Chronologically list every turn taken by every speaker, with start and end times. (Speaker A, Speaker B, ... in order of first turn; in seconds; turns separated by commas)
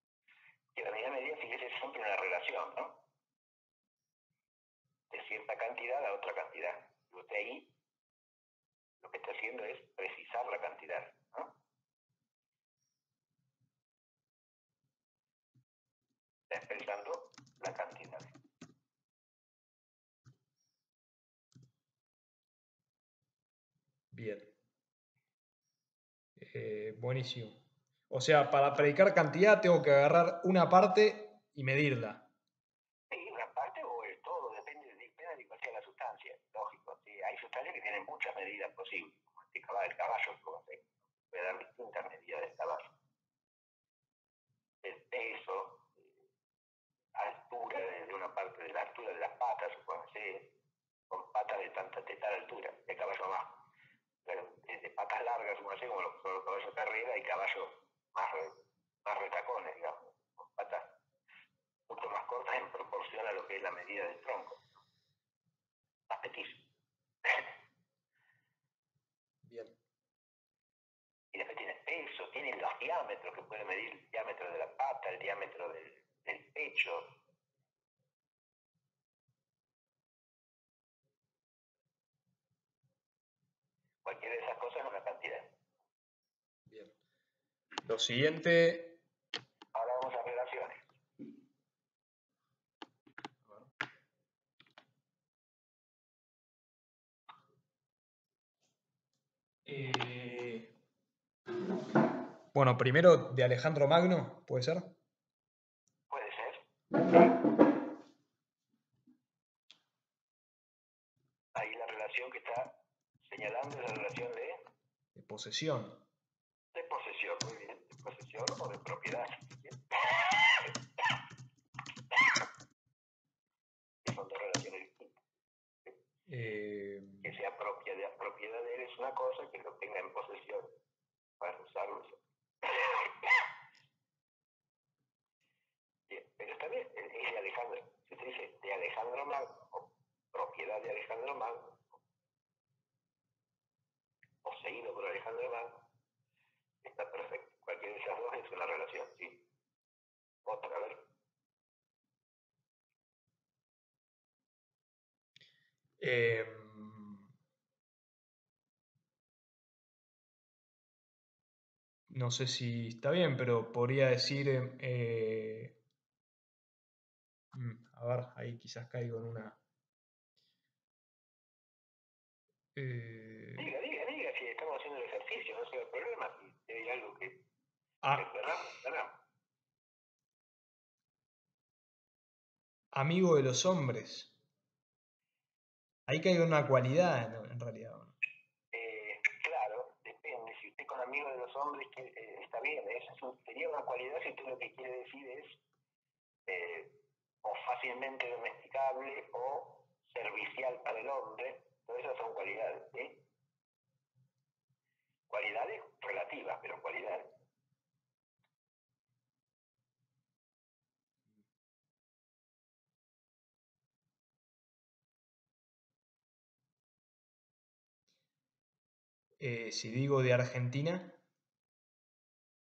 Speaker A: 0.7-3.0, Speaker A: 5.1-7.7, Speaker A: 9.0-11.5, Speaker A: 16.5-18.4, Speaker B: 24.1-24.5, Speaker B: 26.4-27.6, Speaker B: 28.1-32.2, Speaker A: 33.1-42.9, Speaker A: 44.8-46.1, Speaker A: 47.1-50.5, Speaker A: 51.1-53.6, Speaker A: 54.2-61.0, Speaker A: 61.9-64.7, Speaker A: 66.1-66.7, Speaker B: 69.4-69.8, Speaker A: 71.3-77.2, Speaker A: 84.0-85.5, Speaker B: 86.7-87.0, Speaker B: 87.8-89.0, Speaker A: 89.7-90.9, Speaker B: 99.7-100.7, Speaker B: 102.5-104.9, Speaker A: 106.1-106.7, Speaker A: 111.5-114.7, Speaker B: 115.1-116.0, Speaker A: 116.7-120.8, Speaker A: 124.0-125.2, Speaker B: 126.3-127.3, Speaker A: 127.2-130.8, Speaker A: 131.4-133.4, Speaker A: 136.1-142.0, Speaker A: 144.4-145.9, Speaker A: 146.8-149.4, Speaker A: 150.4-151.0, Speaker B: 156.0-157.3, Speaker B: 162.1-165.8, Speaker B: 167.5-169.6, Speaker B: 172.8-173.7, Speaker A: 173.6-177.4, Speaker A: 178.1-179.2, Speaker B: 182.9-184.3, Speaker B: 186.1-188.2, Speaker A: 188.7-195.6, Speaker A: 196.5-203.2, Speaker A: 205.3-207.3, Speaker B: 219.4-221.2